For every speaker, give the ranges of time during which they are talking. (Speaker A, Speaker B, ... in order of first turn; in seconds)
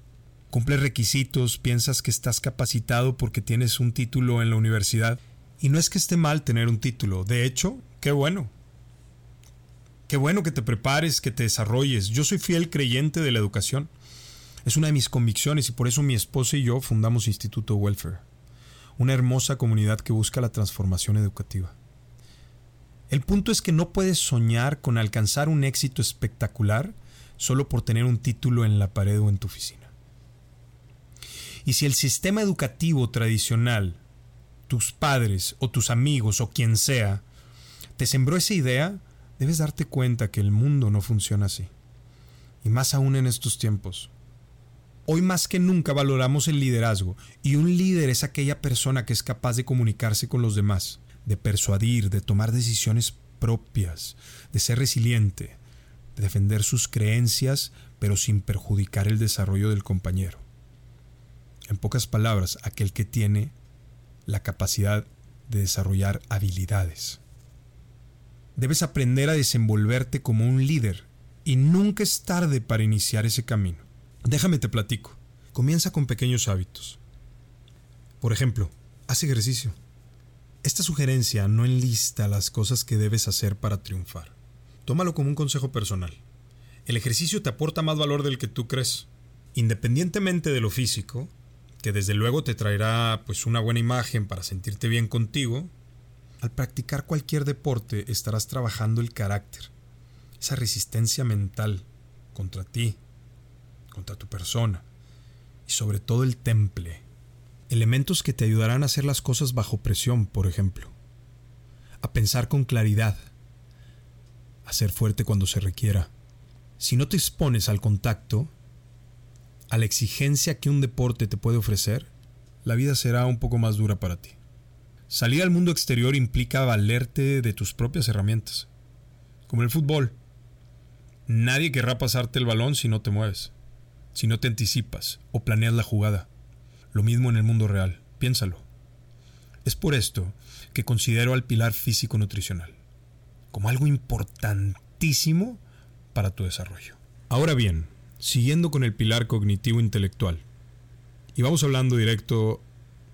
Speaker A: 0.5-8.5, 10.1-13.9, 14.6-18.2, 19.0-21.8, 23.1-29.9, 31.6-34.0, 34.7-37.2, 38.0-41.7, 42.6-44.1, 45.1-55.6, 56.1-60.4, 61.7-63.5, 64.2-67.2, 68.5-77.0, 78.2-79.8, 80.6-86.2, 86.8-95.7, 96.4-99.7, 100.4-103.0, 103.9-104.8, 105.7-107.0, 107.7-111.0, 112.0-113.3, 114.7-116.1, 116.8-118.5, 119.7-122.1, 122.6-124.4, 125.1-128.7, 129.5-130.2, 131.3-133.5, 134.1-136.3, 136.9-138.6, 139.6-142.8, 143.5-145.6, 146.1-150.4, 151.3-152.6